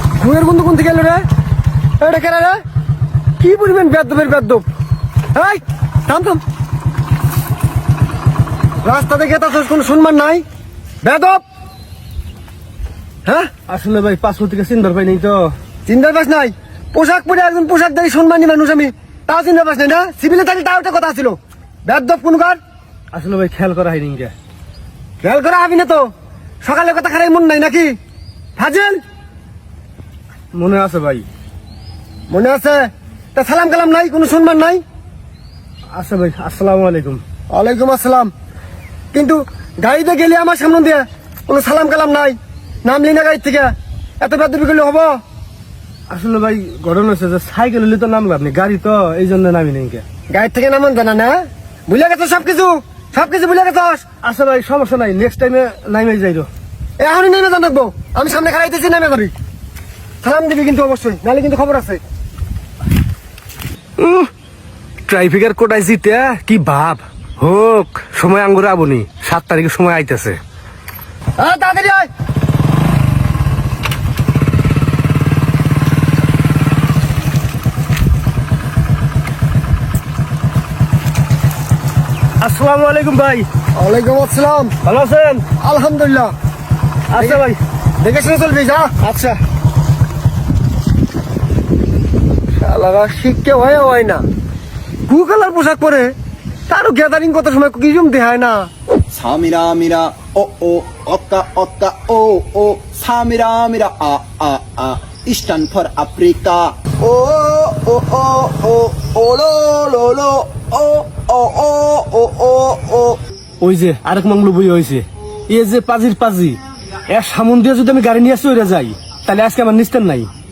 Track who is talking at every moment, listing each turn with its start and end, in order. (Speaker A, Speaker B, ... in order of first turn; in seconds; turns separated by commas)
Speaker A: 0.2-1.2, Speaker A: 2.0-2.6, Speaker A: 3.4-4.6, Speaker A: 5.3-6.4, Speaker A: 8.8-10.4, Speaker A: 11.0-11.4, Speaker A: 13.2-13.5, Speaker B: 13.7-15.5, Speaker A: 15.9-22.6, Speaker B: 23.1-24.3, Speaker A: 25.2-26.1, Speaker A: 26.6-27.9, Speaker A: 28.6-29.0, Speaker B: 30.5-31.2, Speaker A: 32.3-34.8, Speaker B: 36.0-37.2, Speaker A: 37.5-38.3, Speaker A: 39.1-45.2, Speaker B: 46.1-50.0, Speaker A: 50.3-54.0, Speaker B: 54.2-56.5, Speaker A: 57.0-59.3, Speaker A: 60.2-62.0, Speaker B: 64.0-64.3, Speaker B: 65.1-70.4, Speaker A: 71.4-72.1, Speaker B: 82.4-83.5, Speaker A: 83.8-84.7, Speaker B: 84.8-85.5, Speaker A: 85.6-86.3, Speaker B: 87.1-87.6, Speaker A: 87.2-87.4, Speaker A: 88.0-89.4, Speaker A: 92.6-94.2, Speaker A: 95.1-96.1, Speaker A: 96.7-98.7, Speaker C: 99.1-113.2, Speaker B: 113.6-120.3